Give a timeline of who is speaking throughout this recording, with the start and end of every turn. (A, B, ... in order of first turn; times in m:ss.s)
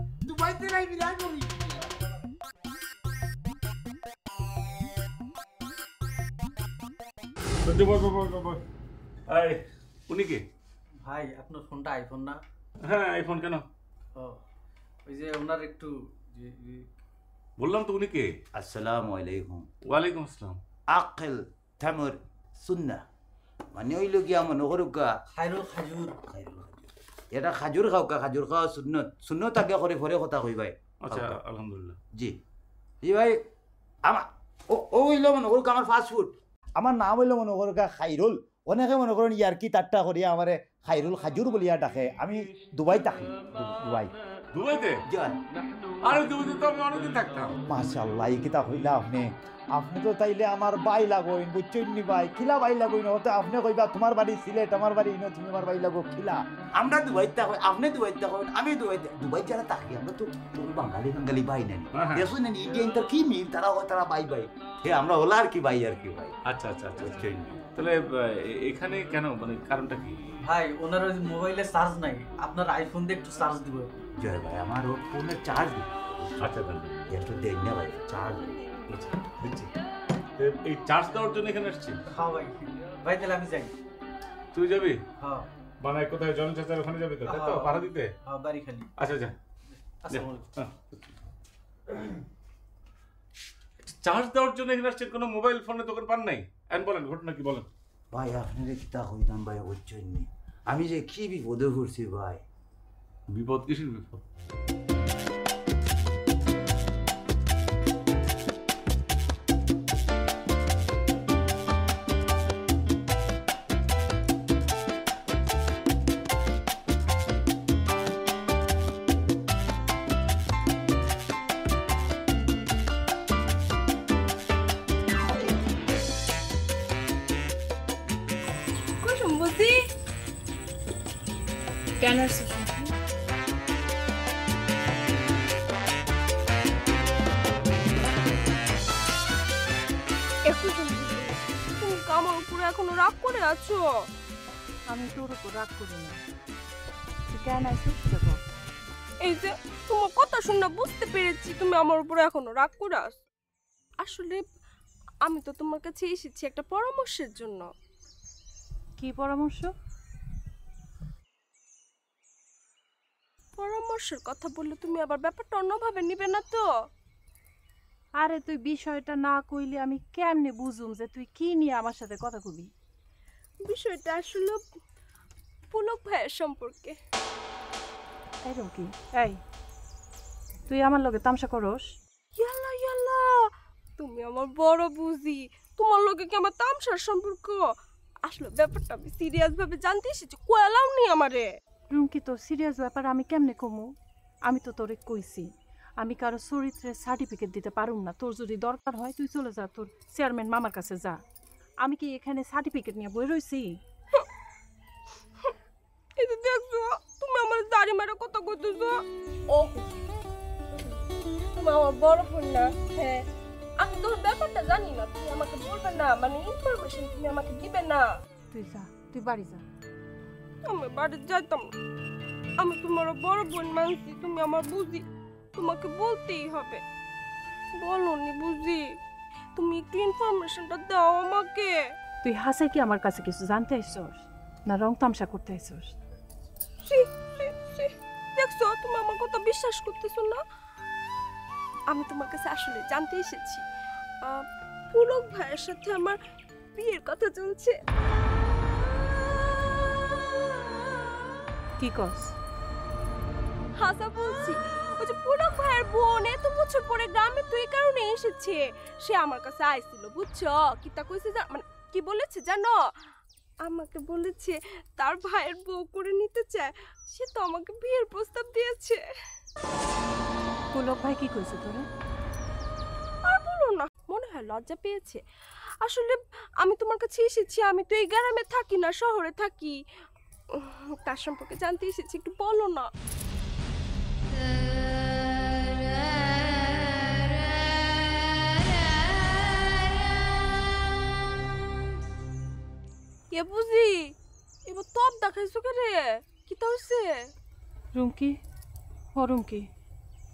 0:00.2-0:02.0 A
0:07.6-0:08.6 B
0:09.3-0:10.4 B
0:11.0-0:12.4 C
0:12.8-0:13.7 B
0:14.1-0:14.4 C
0:15.0-0:16.9 C
0:17.6-0:18.3 B
0:18.5-0:19.7 A
0:19.8-0:20.6 B
0:20.9-0:23.0 A
0:23.7-0:25.2 A
0:25.3-0:26.2 C
0:26.2-0:31.4 A
0:31.0-0:32.0 B
0:32.1-0:32.4 A
0:33.0-0:33.4 A
0:34.0-0:44.1 A
0:44.5-0:45.0 B
0:45.1-0:45.4 A
0:46.0-0:47.6 B
0:47.7-1:06.4 A
1:01.9-1:02.3 B
1:06.4-1:10.2 B
1:07.0-1:07.6 A
1:10.4-1:14.0 C
1:14.2-1:16.5 A
1:16.4-1:17.0 B
1:17.1-1:18.5 A
1:18.9-1:19.7 B
1:20.4-1:22.0 B
1:22.1-1:23.7 C
1:24.5-1:25.0 B
1:25.2-1:25.5 C
1:25.8-1:28.1 B
1:27.2-1:28.9 C
1:29.0-1:29.3 B
1:30.0-1:30.4 C
1:30.1-1:30.8 B
1:33.8-1:37.7 B
1:38.1-1:42.4 A
1:43.3-1:44.2 B
2:09.0-2:09.8 D
2:12.0-2:12.9 E
2:20.5-2:23.8 D
2:24.9-2:26.2 E
2:27.3-2:28.4 E
2:29.2-2:33.2 D
2:34.0-2:34.4 D
2:35.2-2:37.7 D
2:39.0-2:39.7 E
2:43.6-2:46.7 D
2:48.2-2:52.7 E
2:53.6-2:54.6 D
2:55.7-2:57.0 D
2:58.4-2:59.4 E
3:00.7-3:01.9 E
3:02.4-3:07.7 D
3:08.2-3:11.5 D
3:11.9-3:13.9 E
3:14.4-3:21.2 E
3:21.8-3:23.8 E
3:26.2-3:29.9 D
3:30.7-3:31.0 D
3:31.6-3:33.2 D
3:33.8-3:38.1 D
3:38.5-3:39.6 E
3:40.6-3:41.7 D
3:42.6-3:45.0 D
3:45.6-3:46.8 D
3:47.8-3:48.8 D
3:49.6-3:51.8 D
3:52.2-3:56.0 E
3:56.8-4:00.4 D
4:01.9-4:03.6 D
4:04.2-4:06.2 D
4:06.8-4:07.8 D
4:11.8-4:12.3 E
4:13.8-4:22.8 D
4:23.6-4:29.0 D
4:30.7-4:31.8 E
4:33.2-4:35.2 D
4:35.8-4:39.8 D
4:40.5-4:42.9 D
4:53.3-4:54.1 D
4:54.6-4:57.3 D
4:57.9-4:58.4 E
4:59.1-4:59.7 E